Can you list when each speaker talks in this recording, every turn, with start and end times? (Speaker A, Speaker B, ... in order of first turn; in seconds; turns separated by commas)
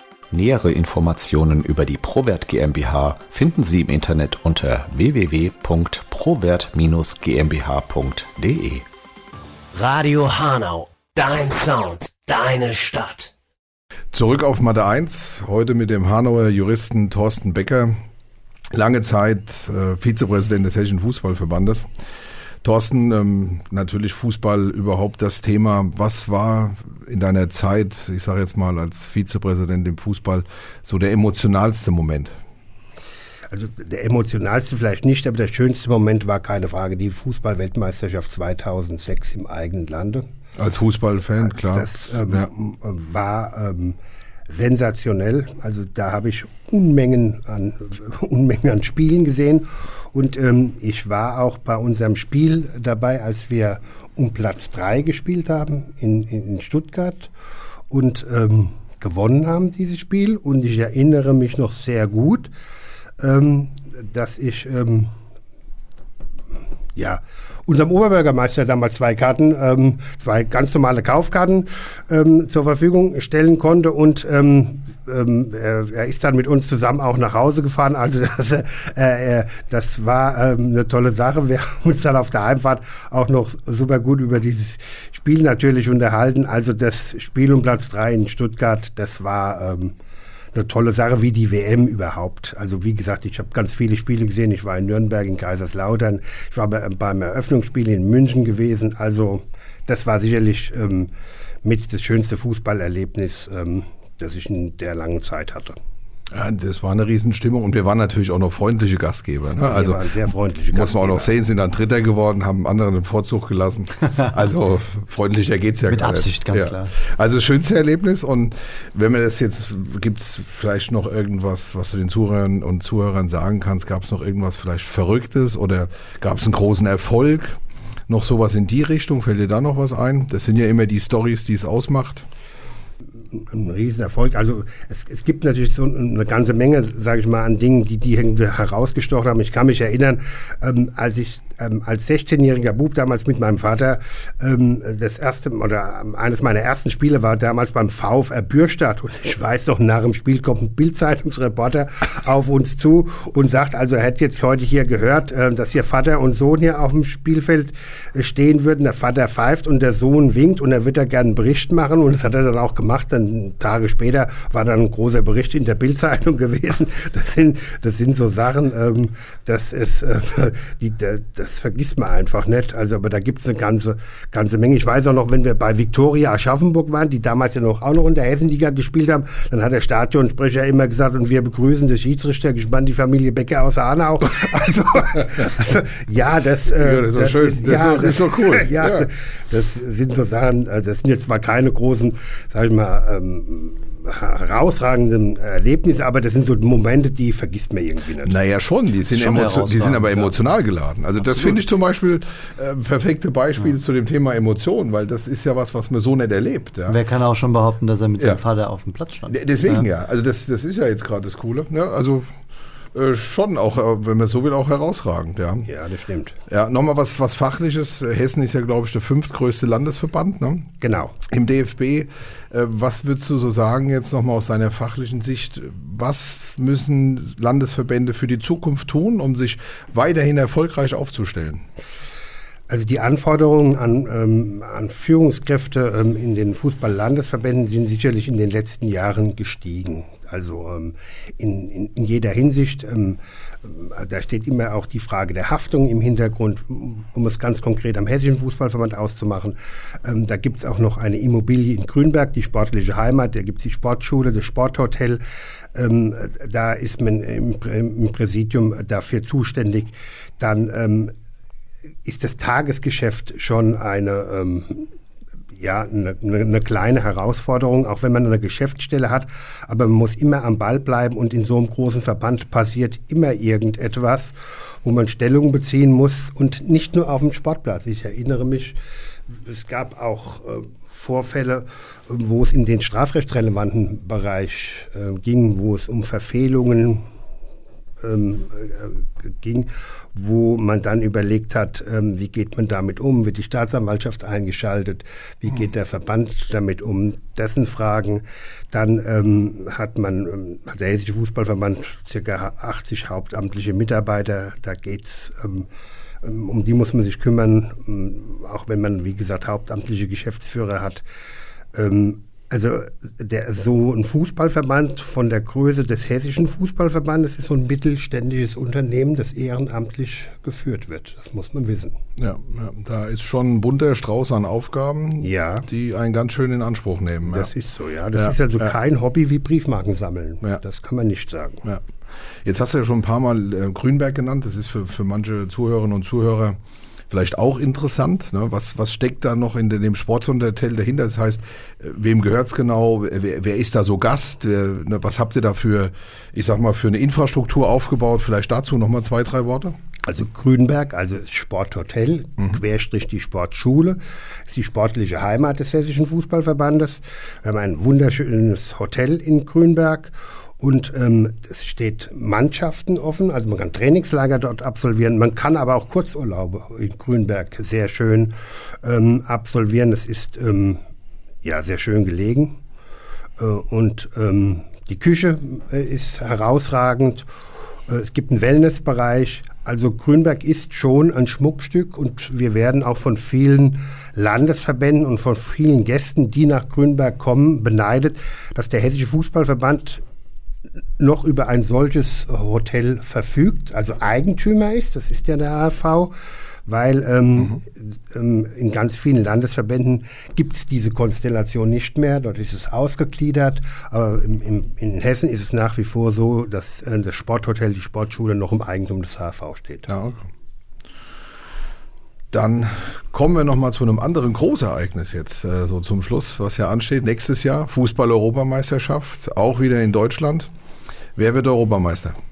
Speaker A: 0.3-8.8, Speaker B: 9.7-13.3, Speaker C: 14.1-18.0, Speaker C: 18.7-21.9, Speaker C: 22.6-32.3, Speaker D: 33.5-40.2, Speaker C: 40.5-42.5, Speaker D: 41.5-44.0, Speaker D: 44.5-57.3, Speaker D: 57.9-62.5, Speaker D: 63.2-65.1, Speaker D: 67.0-89.9, Speaker D: 90.5-101.1, Speaker D: 101.6-105.8, Speaker C: 106.3-110.2, Speaker D: 109.6-111.3, Speaker C: 110.7-132.2, Speaker E: 115.9-116.9, Speaker D: 133.3-198.3, Speaker C: 186.7-189.1, Speaker C: 198.2-207.0, Speaker E: 199.1-200.3, Speaker E: 201.2-201.6, Speaker E: 206.9-209.8, Speaker C: 209.3-212.3, Speaker C: 212.9-215.7, Speaker D: 215.7-216.4, Speaker C: 216.5-231.6, Speaker D: 220.8-221.2, Speaker D: 232.7-255.2, Speaker D: 255.7-261.1, Speaker D: 262.0-264.9, Speaker D: 265.6-278.8, Speaker D: 279.3-287.0, Speaker D: 288.0-305.7, Speaker D: 306.2-311.0, Speaker D: 311.7-322.0, Speaker C: 322.2-327.5, Speaker D: 325.2-325.7, Speaker D: 327.2-331.6, Speaker C: 328.1-328.7, Speaker C: 332.4-336.6, Speaker C: 337.1-349.8, Speaker D: 350.0-370.8, Speaker D: 371.4-372.6, Speaker D: 373.4-377.3, Speaker D: 377.9-390.0, Speaker D: 391.0-396.1, Speaker D: 396.7-409.9, Speaker C: 409.9-410.3, Speaker C: 412.3-420.5, Speaker C: 421.1-422.2